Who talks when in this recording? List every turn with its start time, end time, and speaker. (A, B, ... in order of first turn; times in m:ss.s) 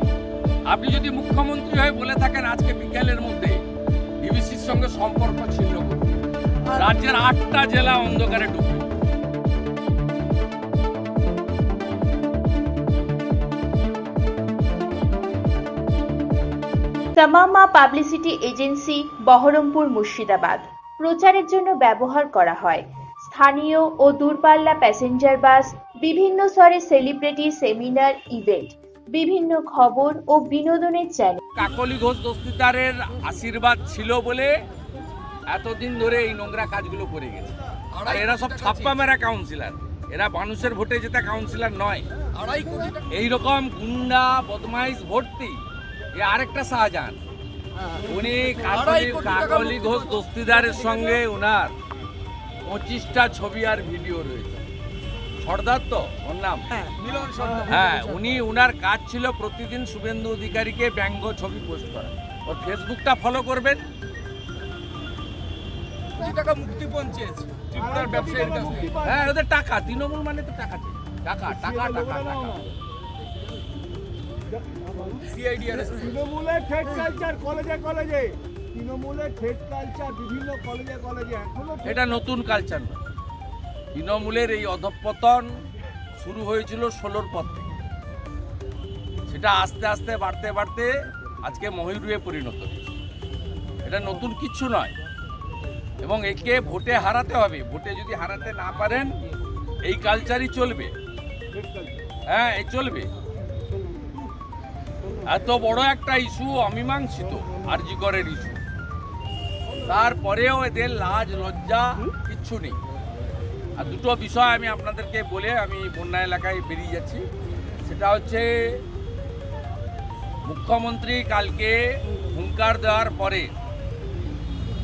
0:00.7-0:03.6 A
0:04.2-0:06.0 A
0:06.7-0:08.8 A
0:17.2-0:31.4 B
0:31.6-0:34.6 A
0:35.5-0:42.1 A
0:38.0-0:39.0 C
0:42.4-0:43.0 C
0:43.1-0:45.6 A
0:46.2-0:47.2 A
0:48.0-0:51.7 A
0:48.7-0:49.9 C
0:52.6-0:54.7 A
0:55.4-0:56.8 A
0:57.0-0:58.3 C
0:57.7-1:03.8 A
1:06.2-1:08.9 C
1:07.8-1:09.3 D
1:09.0-1:12.7 A
1:11.5-1:12.6 D
1:14.5-1:15.3 D
1:15.3-1:16.2 C
1:16.0-1:22.1 D
1:21.8-1:23.0 A
1:23.9-1:25.6 A
1:26.2-1:27.7 A
1:29.3-1:32.9 A
1:33.8-1:34.9 A
1:36.0-1:39.2 A
1:39.8-1:40.9 A
1:41.5-1:42.0 D
1:42.3-1:43.1 A
1:45.3-1:48.6 A
1:49.9-1:52.8 A
1:53.8-1:57.2 A
1:57.8-1:58.8 A
2:00.4-2:03.5 A